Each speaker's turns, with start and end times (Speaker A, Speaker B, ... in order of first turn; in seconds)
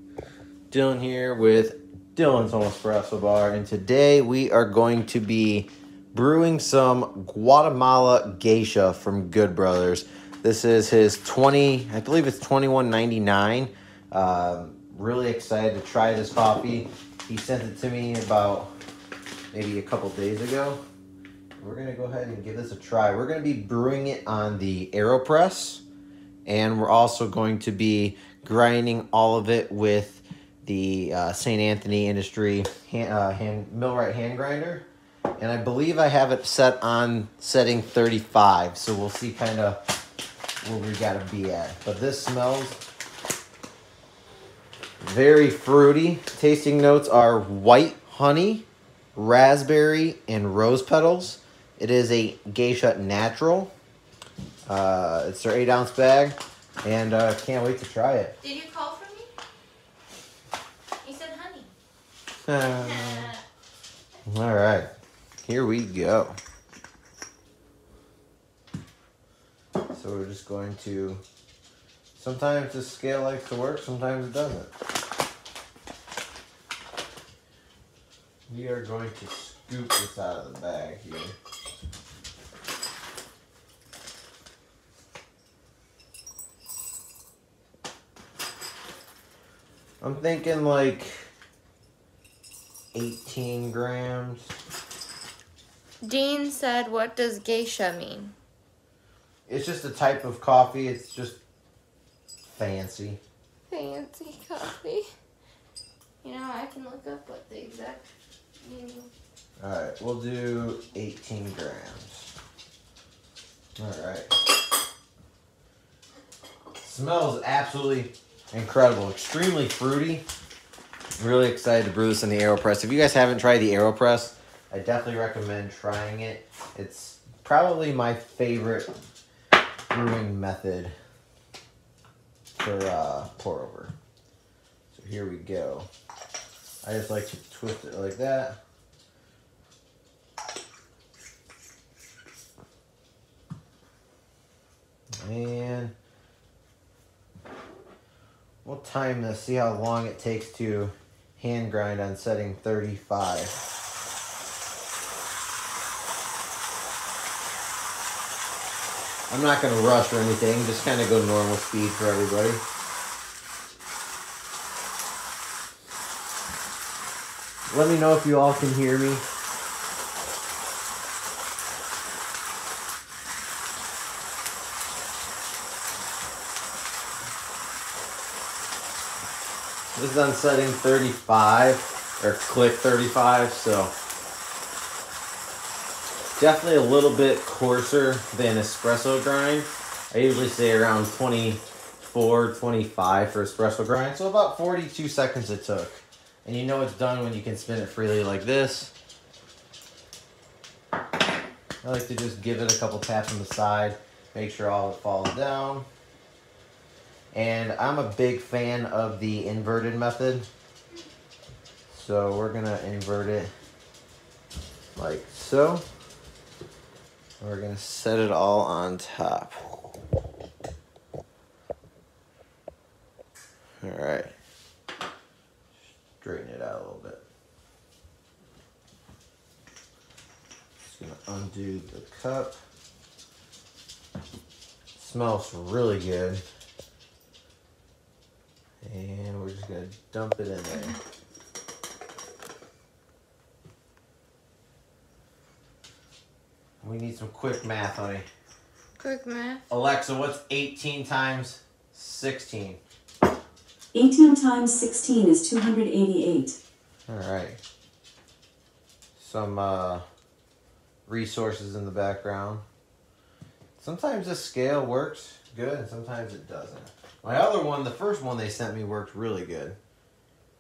Speaker A: 0.7-18.7, 19.5-20.8, 21.6-25.8, 26.5-34.9, 35.4-39.8, 40.6-42.8, 45.0-53.7, 54.7-58.4, 62.5-63.4, 64.3-64.9, 65.4-66.4, 69.9-71.2, 72.2-74.7, 78.5-81.3, 90.0-91.3, 92.9-94.5, 99.5-101.4, 102.6-103.2, 109.6-112.3, 113.8-114.3, 116.8-120.2, 121.2-128.9, 129.9-130.9, 132.6-133.9, 134.9-135.9, 136.8-138.6, 145.2-145.9, 148.6-153.6, 159.3-162.6, 167.7-169.2, 179.9-183.9, 186.4-198.9, 201.8-205.9, 207.3-210.5, 211.9-213.5, 214.9-215.8, 217.4-219.6, 223.8-224.3, 226.2-227.2, 230.8-232.6, 235.0-236.4, 238.8-241.0, 246.8-248.3, 249.7-252.8, 257.1-257.6, 259.2-260.0, 261.1-262.6, 263.8-269.8
Speaker B: 58.4-59.3, 61.0-61.7, 62.8-63.4, 96.0-98.3, 103.7-105.1, 106.2-108.1, 108.6-109.1, 249.0-249.7
Speaker C: 253.9-256.6